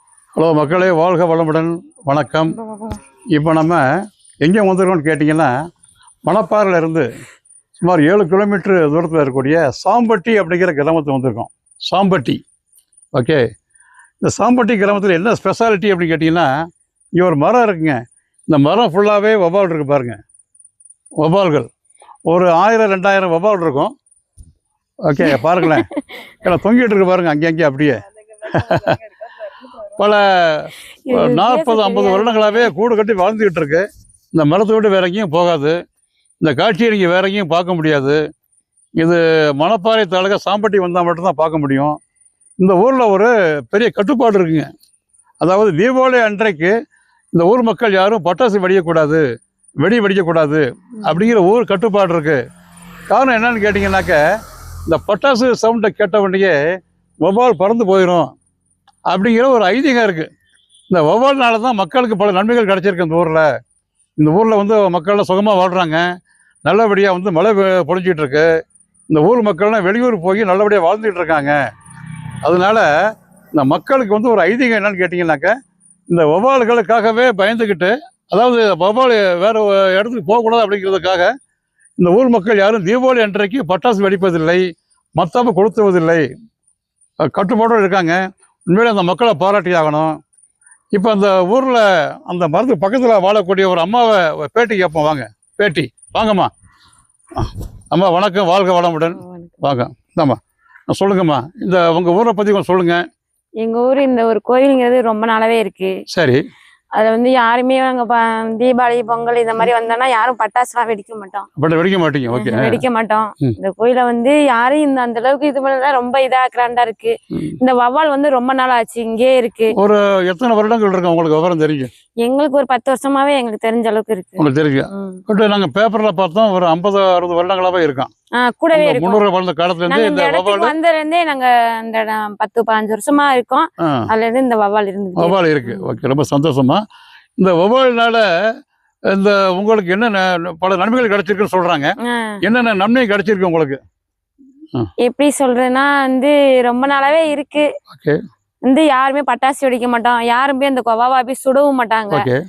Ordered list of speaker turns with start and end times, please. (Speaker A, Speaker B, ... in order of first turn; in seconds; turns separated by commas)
Speaker A: 0.3-2.6, Speaker A: 3.3-3.8, Speaker A: 4.4-5.5, Speaker A: 6.3-7.1, Speaker A: 7.8-12.4, Speaker A: 13.1-13.4, Speaker A: 14.2-16.5, Speaker A: 17.2-20.2, Speaker A: 21.2-21.7, Speaker A: 22.3-23.9, Speaker A: 25.1-25.9, Speaker B: 25.2-26.2, Speaker A: 26.4-29.0, Speaker A: 29.6-33.8, Speaker B: 31.1-32.7, Speaker A: 34.3-35.7, Speaker A: 36.4-38.2, Speaker A: 39.0-41.9, Speaker A: 42.6-44.7, Speaker A: 45.4-46.7, Speaker A: 47.3-49.2, Speaker A: 49.8-52.4, Speaker A: 53.1-54.2, Speaker A: 54.9-56.6, Speaker A: 57.2-58.3, Speaker A: 59.1-60.3, Speaker A: 60.9-63.5, Speaker A: 64.2-66.0, Speaker A: 66.6-68.5, Speaker A: 69.1-71.6, Speaker A: 72.4-72.9, Speaker A: 73.5-75.5, Speaker A: 76.1-81.3, Speaker A: 82.0-84.6, Speaker A: 85.2-86.2, Speaker A: 87.3-90.1, Speaker A: 90.9-96.5, Speaker A: 97.3-100.4, Speaker B: 99.2-99.6, Speaker A: 100.9-103.0, Speaker B: 103.6-105.9, Speaker A: 106.1-106.4, Speaker B: 107.0-111.5, Speaker A: 111.6-112.8, Speaker B: 112.3-119.7, Speaker A: 119.8-121.9, Speaker B: 122.2-125.2, Speaker A: 124.4-128.1, Speaker B: 128.3-129.2, Speaker A: 128.7-130.8, Speaker B: 129.9-135.9, Speaker A: 135.2-136.8, Speaker A: 137.4-138.2, Speaker A: 139.1-143.8, Speaker B: 142.0-142.3, Speaker B: 145.0-147.7, Speaker A: 147.9-148.2, Speaker B: 148.6-152.2, Speaker A: 152.1-152.4